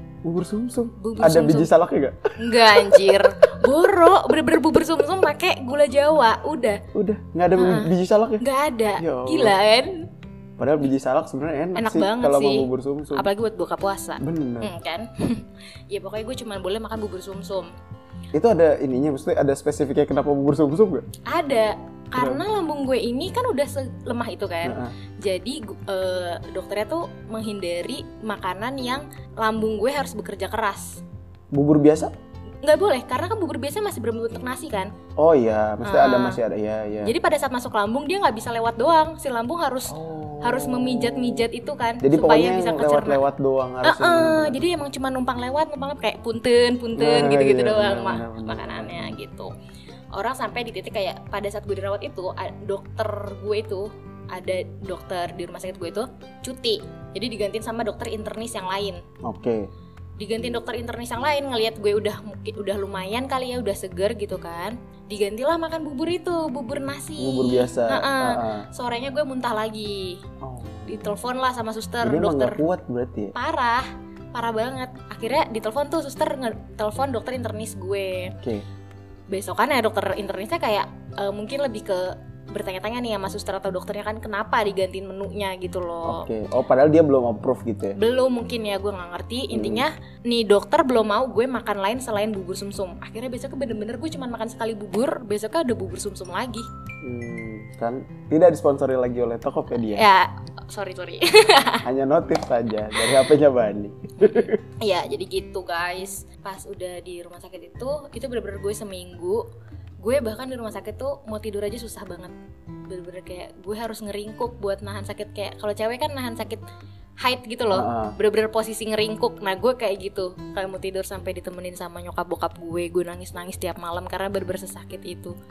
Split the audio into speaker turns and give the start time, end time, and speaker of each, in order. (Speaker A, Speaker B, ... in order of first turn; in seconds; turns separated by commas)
Speaker A: 0.2-3.5, Speaker B: 1.0-1.7, Speaker B: 2.4-6.8, Speaker A: 6.9-8.4, Speaker B: 7.6-10.1, Speaker A: 9.0-9.6, Speaker A: 10.6-13.3, Speaker B: 11.8-17.7, Speaker A: 14.2-14.7, Speaker A: 18.3-21.1, Speaker B: 21.3-31.0, Speaker A: 22.2-22.4, Speaker A: 24.6-24.9, Speaker A: 31.5-32.1, Speaker B: 32.6-34.9, Speaker A: 35.2-37.1, Speaker B: 35.8-36.4, Speaker B: 37.0-43.2, Speaker A: 39.9-41.5, Speaker A: 42.0-44.6, Speaker B: 43.8-49.5, Speaker A: 47.0-49.2, Speaker B: 50.1-59.0, Speaker A: 59.2-59.7, Speaker B: 60.2-70.2, Speaker A: 67.2-68.7, Speaker A: 70.4-71.2, Speaker B: 70.9-72.6, Speaker A: 72.0-73.3, Speaker B: 73.3-78.4, Speaker A: 78.4-78.7, Speaker B: 79.3-86.3, Speaker A: 86.0-88.0, Speaker B: 88.0-96.7, Speaker A: 89.5-89.8, Speaker A: 97.0-100.1, Speaker B: 99.8-101.8, Speaker A: 101.8-104.6, Speaker B: 104.3-109.5, Speaker B: 110.0-112.3, Speaker B: 112.9-116.6, Speaker B: 117.2-125.3, Speaker A: 117.7-118.2